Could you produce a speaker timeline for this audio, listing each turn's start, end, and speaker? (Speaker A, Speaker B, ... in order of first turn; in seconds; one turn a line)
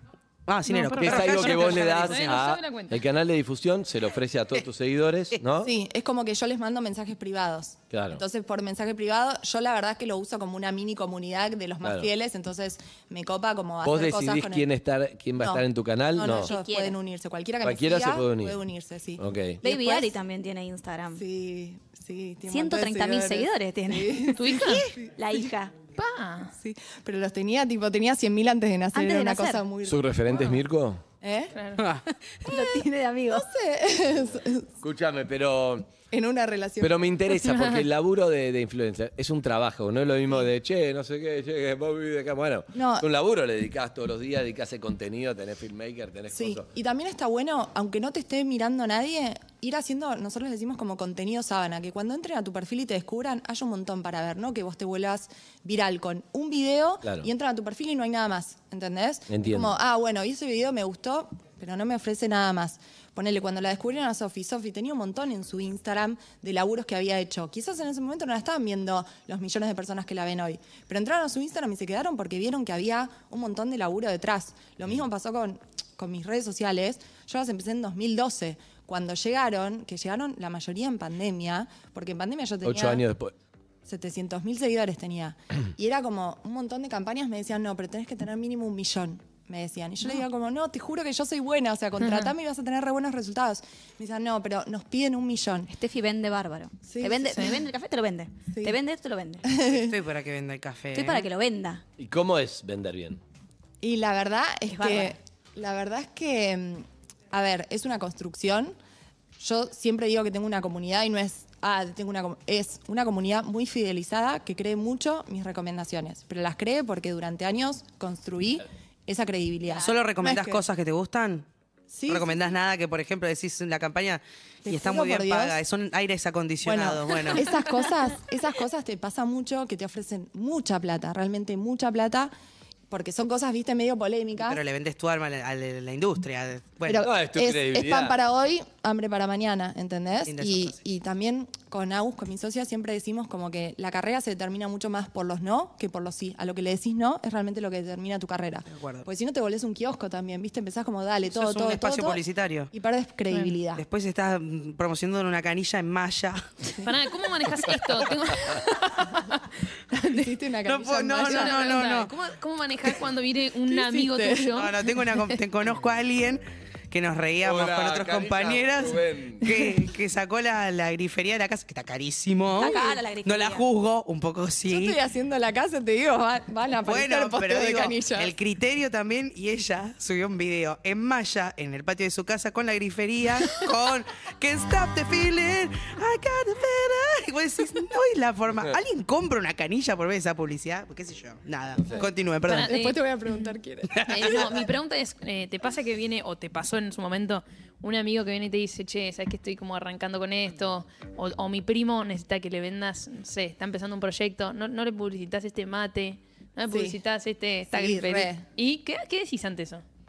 Speaker A: 0.5-2.4
Speaker B: 0.7-3.0
Speaker C: 1.0-5.7
Speaker D: 5.6-14.7
Speaker C: 7.9-8.2
Speaker C: 11.8-12.1
Speaker C: 13.8-16.5
Speaker D: 15.4-20.1
Speaker E: 16.3-17.0
Speaker C: 17.6-18.6
Speaker C: 19.2-19.6
Speaker E: 19.6-21.2
Speaker D: 21.1-25.1
Speaker E: 22.5-25.8
Speaker B: 24.4-24.9
Speaker B: 26.0-26.5
Speaker D: 26.6-30.5
Speaker E: 28.9-29.6
Speaker C: 29.9-31.0
Speaker D: 31.2-31.6
Speaker B: 31.6-31.8
Speaker A: 31.8-32.0
Speaker E: 32.1-33.5
Speaker D: 32.5-32.8
Speaker D: 33.3-34.7
Speaker C: 34.8-35.9
Speaker D: 36.1-37.2
Speaker C: 36.8-46.7
Speaker B: 37.4-37.9
Speaker D: 42.7-43.1
Speaker D: 46.3-83.0
Speaker C: 57.0-57.3
Speaker C: 59.3-59.8
Speaker C: 82.6-83.3
Speaker D: 83.9-95.7
Speaker B: 92.0-92.3
Speaker E: 95.7-99.5
Speaker D: 96.9-97.6
Speaker D: 98.5-98.8
Speaker D: 99.5-100.0
Speaker A: 99.7-101.3
Speaker E: 100.9-101.8
Speaker C: 102.0-103.2
Speaker D: 103.8-108.8
Speaker E: 104.7-105.2
Speaker D: 109.4-120.6
Speaker A: 119.8-121.5
Speaker D: 121.9-122.4
Speaker A: 122.1-127.6
Speaker D: 124.7-125.6
Speaker D: 126.6-132.3
Speaker D: 132.9-134.6
Speaker A: 134.4-137.1
Speaker D: 136.8-153.8
Speaker C: 137.0-138.2
Speaker A: 140.3-140.8
Speaker A: 148.7-149.1
Speaker A: 151.3-152.7
Speaker A: 153.8-156.4
Speaker B: 156.8-160.3
Speaker D: 160.1-161.8
Speaker A: 160.7-162.2
Speaker B: 161.2-165.3
Speaker D: 163.7-164.6
Speaker A: 164.5-175.0
Speaker C: 167.4-169.5
Speaker E: 172.6-173.7
Speaker D: 172.6-173.0
Speaker D: 174.7-178.3
Speaker A: 176.8-192.8
Speaker D: 191.9-194.7
Speaker B: 192.5-193.0
Speaker A: 193.9-194.4
Speaker B: 194.1-209.8
Speaker D: 206.7-207.0
Speaker D: 207.7-208.5